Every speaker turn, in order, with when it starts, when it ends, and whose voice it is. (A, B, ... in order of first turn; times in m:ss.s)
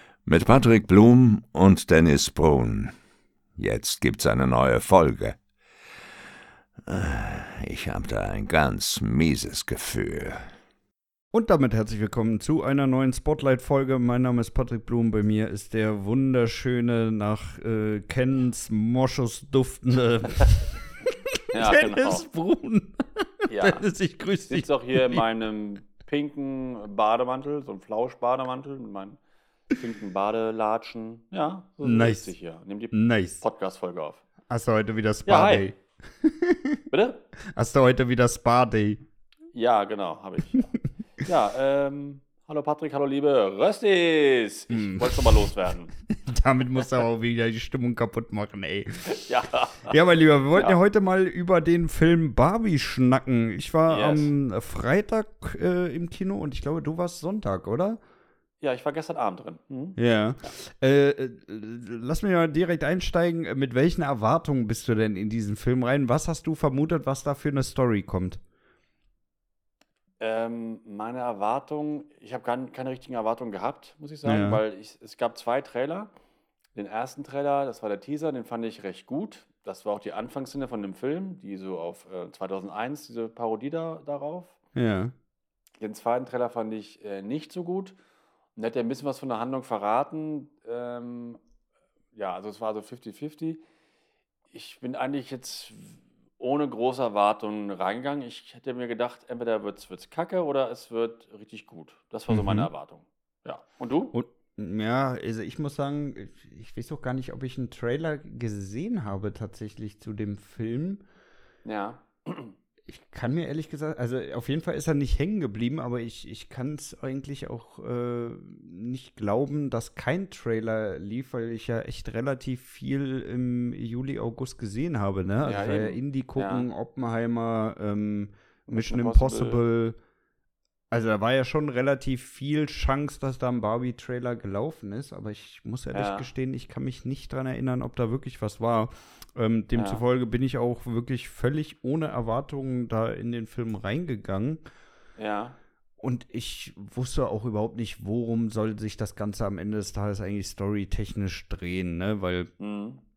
0:00.2-0:02.9 A
0:03.6-0:05.4 A
0:06.8-0:10.5 A
0:11.3-0:25.2 B
0:21.5-0:22.2 C
0:23.5-0:23.9 C
0:24.5-0:34.2 C
0:31.8-0:32.3 B
0:32.9-0:33.4 B
0:34.5-0:36.8 B
0:35.3-0:35.7 C
0:36.9-0:37.2 C
0:37.5-0:39.0 B
0:39.5-0:45.9 C
0:44.7-0:45.6 B
0:46.1-0:49.3 B
0:49.0-0:49.9 C
0:49.8-0:58.0 B
0:53.9-0:54.3 C
0:58.6-1:00.5 C
1:00.0-1:08.4 B
1:10.2-1:16.1 C
1:14.2-1:14.6 B
1:16.8-1:24.6 C
1:24.8-1:25.1 B
1:25.8-1:28.0 C
1:28.6-1:31.4 C
1:32.1-1:33.6 C
1:34.5-1:44.1 C
1:42.3-1:42.7 B
1:44.1-1:51.0 B
1:51.6-1:52.6 C
1:52.9-2:10.0 B
2:05.4-2:06.7 C
2:08.7-2:09.6 C
2:10.9-2:24.6 B
2:15.9-2:16.3 C
2:19.8-2:20.0 C
2:25.2-2:25.6 C
2:26.0-2:32.5 B
2:32.6-2:33.0 C